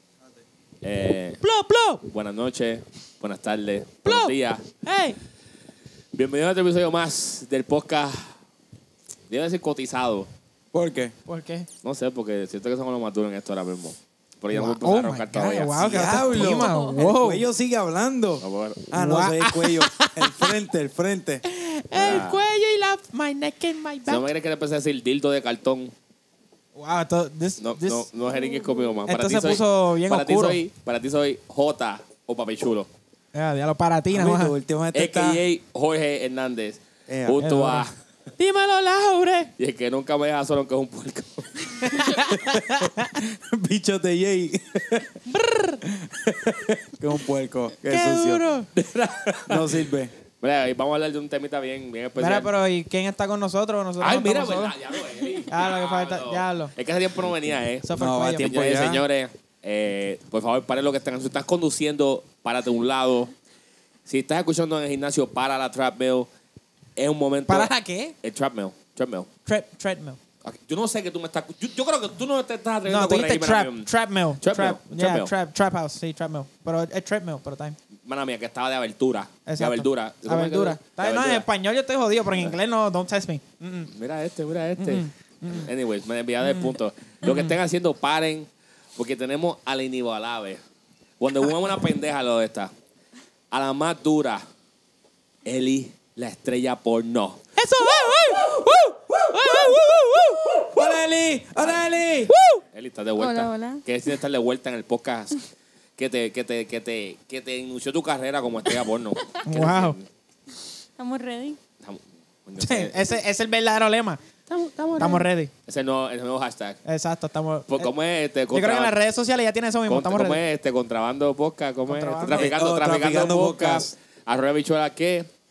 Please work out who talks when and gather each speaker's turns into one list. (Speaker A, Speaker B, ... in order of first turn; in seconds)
Speaker A: 0.8-1.4, 2.1-4.7, 6.1-8.3, 9.3-10.3, 11.8-16.1, 18.4-18.8, 21.9-22.4, 24.1-25.9, 27.6-32.9, 34.9-37.9, 39.6-42.0, 48.7-49.7, 50.4-52.5, 54.0-63.3, 64.0-66.3, 67.0-67.7, 68.2-69.3, 70.4-73.9, 74.4-75.3, 78.0-81.5, 83.9-90.6, 91.2-92.7, 93.5-94.4, 95.5-97.4, 102.7-105.4, 106.0-110.1, 111.8-112.9, 114.5-116.8, 117.7-118.9, 119.9-125.3
Speaker B: 1.4-2.0, 4.0-5.2, 11.2-11.7, 14.5-17.4, 18.9-20.5, 21.4-24.2, 26.7-28.1, 29.1-30.6, 33.3-34.5, 37.4-37.9, 38.4-39.5, 41.8-43.1, 45.3-45.8, 47.9-48.7, 52.2-54.7, 55.5-56.7, 57.8-58.5, 67.5-68.1, 69.5-70.2, 72.9-77.8, 79.5-83.9, 84.8-85.7, 86.4-87.5, 97.5-100.8, 102.3-102.6, 109.4-110.0, 112.6-114.2, 115.0-115.5, 116.8-117.9, 118.5-120.4, 121.9-122.5
Speaker C: 10.7-11.1, 15.8-21.4, 34.1-35.4, 37.1-37.4, 42.2-45.2, 45.8-48.4, 49.5-50.1, 58.0-59.0, 100.6-102.3, 122.3-123.9
Speaker D: 16.4-17.1, 28.2-28.9, 103.2-103.8, 111.0-111.6